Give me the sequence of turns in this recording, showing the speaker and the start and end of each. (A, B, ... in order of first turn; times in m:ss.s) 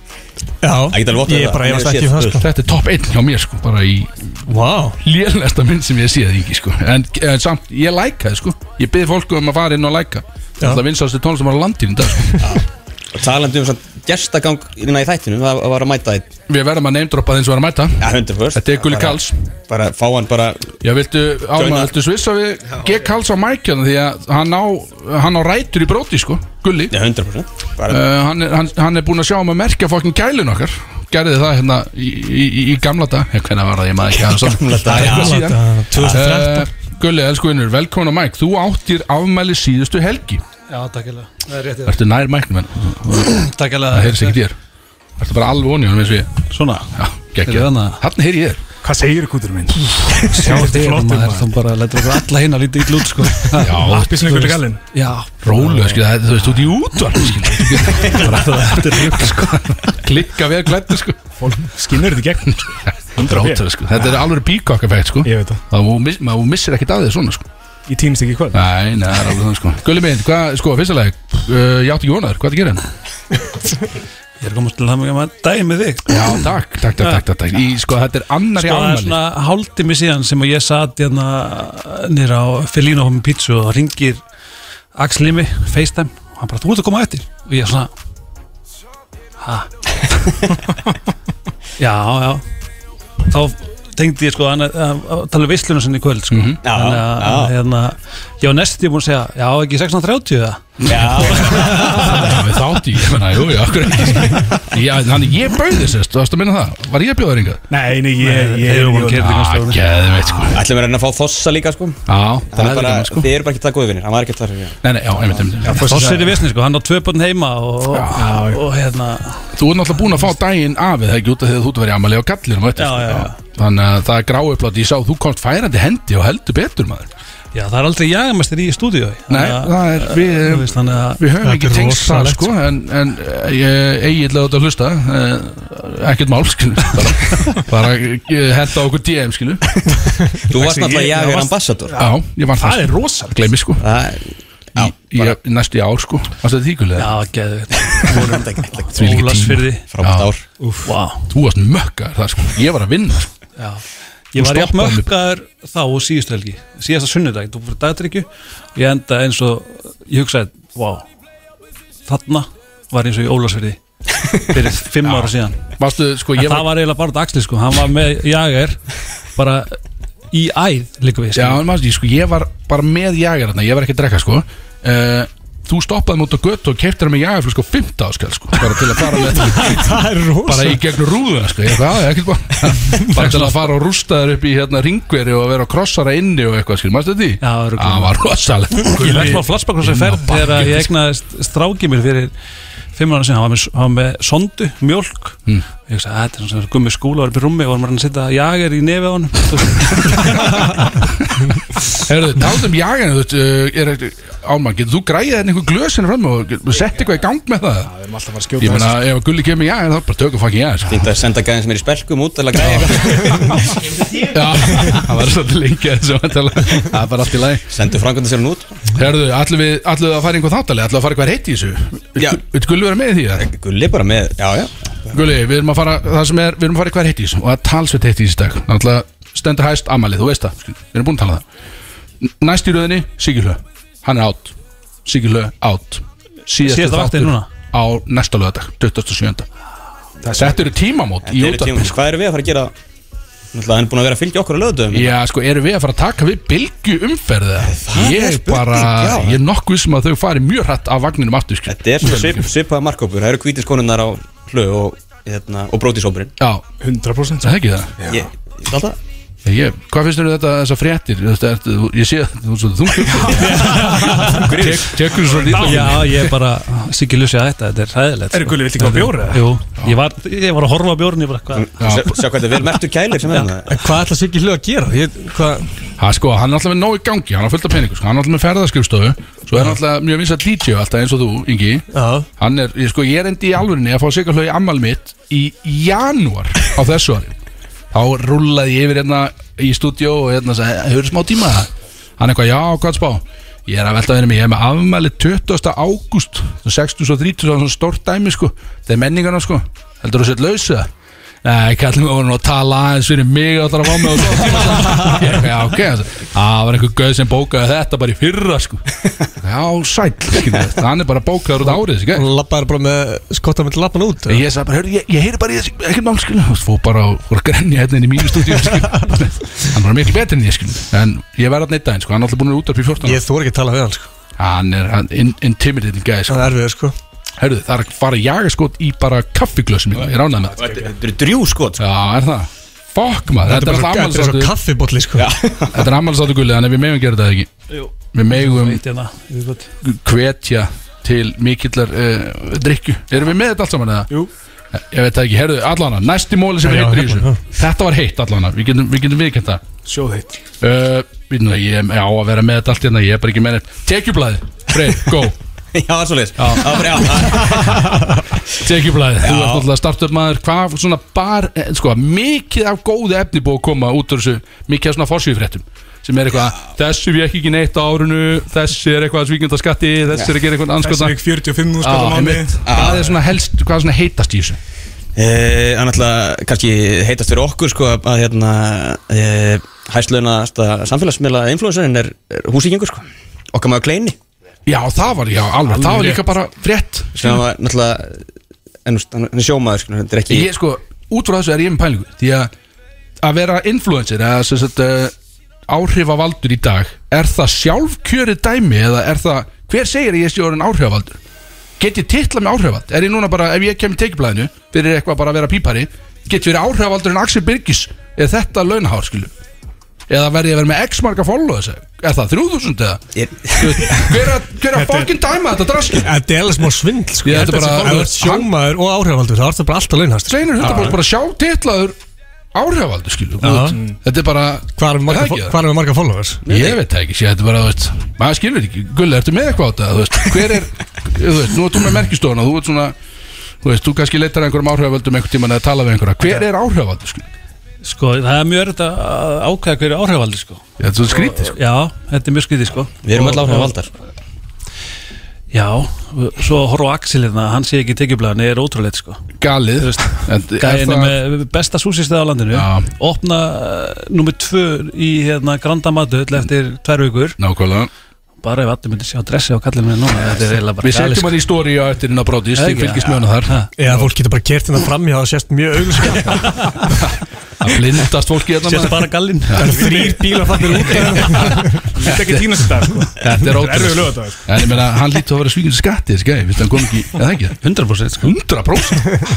0:00.6-0:02.4 A
0:00.9-0:02.4 B
0:02.4-0:04.4 C
0:04.5-0:05.0 A
0:05.0-0:12.5 C
0:12.4-0:16.3 B
0:16.5-0:19.4 C
0:18.0-0:20.8 B
0:20.8-0:27.0 C
0:21.6-0:21.9 B
0:26.9-0:28.0 B
0:27.9-0:40.4 C
0:34.2-0:35.4 B
0:34.9-0:36.7 A
0:40.7-0:42.0 D
0:41.9-0:44.6 C
0:43.3-0:44.4 D
0:45.2-0:48.6 C
0:46.5-0:46.9 D
0:47.4-0:48.0 D
0:48.8-0:51.6 E
0:50.3-0:56.0 D
0:53.6-0:54.2 C
0:53.8-0:54.8 E
0:55.4-1:01.2 C
0:58.0-0:59.5 D
1:01.4-1:03.6 E
1:02.9-1:07.5 C
1:05.2-1:05.6 E
1:07.9-1:08.6 E
1:08.5-1:12.8 C
1:14.4-1:16.4 D
1:16.1-1:19.2 C
1:18.6-1:24.2 D
1:25.0-1:27.9 D
1:29.4-1:29.7 D
1:31.8-1:32.4 D
1:33.3-1:42.3 D
1:36.3-1:36.6 C
1:36.6-1:37.5 B
1:40.9-1:42.1 B
1:41.6-1:47.6 C
1:47.7-1:49.3 E
1:48.2-1:49.8 D
1:49.2-1:50.6 C
1:50.5-1:52.0 B
1:52.1-1:53.3 C
1:52.5-1:54.8 B
1:54.8-1:55.9 C
1:55.6-1:56.5 E
1:55.8-1:59.5 D
1:57.9-1:58.3 C
1:58.2-1:58.6 E
1:59.5-2:07.1 C
2:02.8-2:03.4 D
2:07.5-2:11.2 D
2:09.3-2:19.6 C
2:11.4-2:12.5 A
2:20.5-2:22.0 B
2:20.5-2:23.4 E
2:22.0-2:23.8 C
2:23.8-2:25.4 B
2:24.8-2:27.2 C
2:27.0-2:29.8 D
2:28.0-2:29.2 B
2:29.0-2:30.3 C
2:29.9-2:30.4 B
2:30.6-2:30.9 E
2:30.8-2:31.3 D
2:31.3-2:33.3 C
2:33.6-2:41.1 D
2:34.4-2:35.1 C
2:42.1-2:43.8 D
2:44.5-2:45.6 D
2:45.0-2:46.7 C
2:46.4-2:48.8 D
2:49.4-2:49.8 D
2:50.3-2:51.6 D
2:51.3-3:10.9 C
2:59.3-3:00.8 A
3:07.4-3:08.2 D
3:08.8-3:12.3 D
3:12.9-3:21.0 D
3:22.0-3:27.9 C
3:27.8-3:29.0 E
3:28.6-3:31.1 C
3:30.9-3:33.7 B
3:32.6-3:33.2 C
3:34.1-3:37.6 C
3:37.7-3:38.8 B
3:38.9-3:43.5 C
3:43.4-3:45.2 B
3:45.1-3:51.4 C
3:52.2-3:59.5 C
3:56.6-3:57.5 D
4:00.2-4:00.5 B
4:00.4-4:02.0 C
4:01.2-4:02.7 B
4:03.5-4:05.1 B
4:04.9-4:12.5 C
4:07.7-4:09.4 B
4:11.7-4:16.3 B
4:16.4-4:16.6 C
4:16.8-4:18.3 E
4:17.4-4:17.9 C
4:18.1-4:19.0 B
4:19.4-4:26.3 C
4:23.2-4:26.0 E
4:23.5-4:24.5 D
4:25.5-4:31.9 D
4:28.3-4:29.5 E
4:31.5-4:33.8 B
4:31.8-4:32.2 C
4:33.7-4:35.7 A
4:36.0-4:41.9 C
4:41.9-4:42.3 A
4:42.4-4:47.3 C
4:47.9-5:00.9 C
5:01.4-5:08.8 C
5:09.4-5:12.2 C
5:12.1-5:14.4 A
5:14.3-5:23.2 C
5:23.0-5:24.1 A
5:24.4-5:26.5 C
5:26.3-5:27.0 A
5:27.4-5:30.6 C
5:30.6-5:31.8 B
5:31.8-5:34.5 C
5:33.4-5:35.3 A
5:35.2-5:35.9 B
5:35.7-5:37.5 C
5:37.7-5:39.7 D
5:38.1-5:38.8 C
5:39.8-5:44.1 C
5:44.7-5:49.6 C
5:46.6-5:47.4 A
5:49.9-5:50.4 E
5:50.6-5:55.4 C
5:55.7-5:57.9 B
5:56.4-5:58.0 C
5:58.6-6:11.2 C
5:59.2-5:59.7 B
6:10.8-6:12.6 E
6:11.8-6:14.6 C
6:12.7-6:13.2 B
6:15.2-6:24.2 B
6:24.7-6:27.4 C
6:25.9-6:26.2 E
6:27.2-6:28.2 B
6:28.9-6:30.5 B
6:30.3-6:32.5 C
6:33.2-6:35.1 C
6:35.7-6:41.2 C
6:41.8-6:49.3 C
6:50.1-6:53.0 C
6:53.2-6:54.2 B
6:53.6-6:56.1 C
6:56.0-7:00.7 A
6:57.2-6:58.5 C
7:00.3-7:02.0 C
7:00.6-7:00.9 B
7:02.5-7:05.6 C
7:03.4-7:03.8 A
7:04.8-7:06.4 A
7:06.4-7:06.8 B
7:06.5-7:13.0 C
7:13.6-7:17.3 C
7:17.8-7:23.8 D
7:20.8-7:21.6 C
7:23.0-7:23.9 B
7:25.5-7:29.2 D
7:29.4-7:31.2 C
7:29.8-7:37.4 D
7:32.5-7:32.9 C
7:37.4-7:37.9 C
7:38.4-7:41.4 D
7:40.8-7:44.1 C
7:42.5-7:43.7 D
7:43.8-7:46.5 A
7:47.6-7:49.7 C
7:48.6-7:50.0 D
7:49.5-7:51.9 A
7:49.7-7:54.4 E
7:52.0-7:59.2 C
7:57.6-7:58.3 D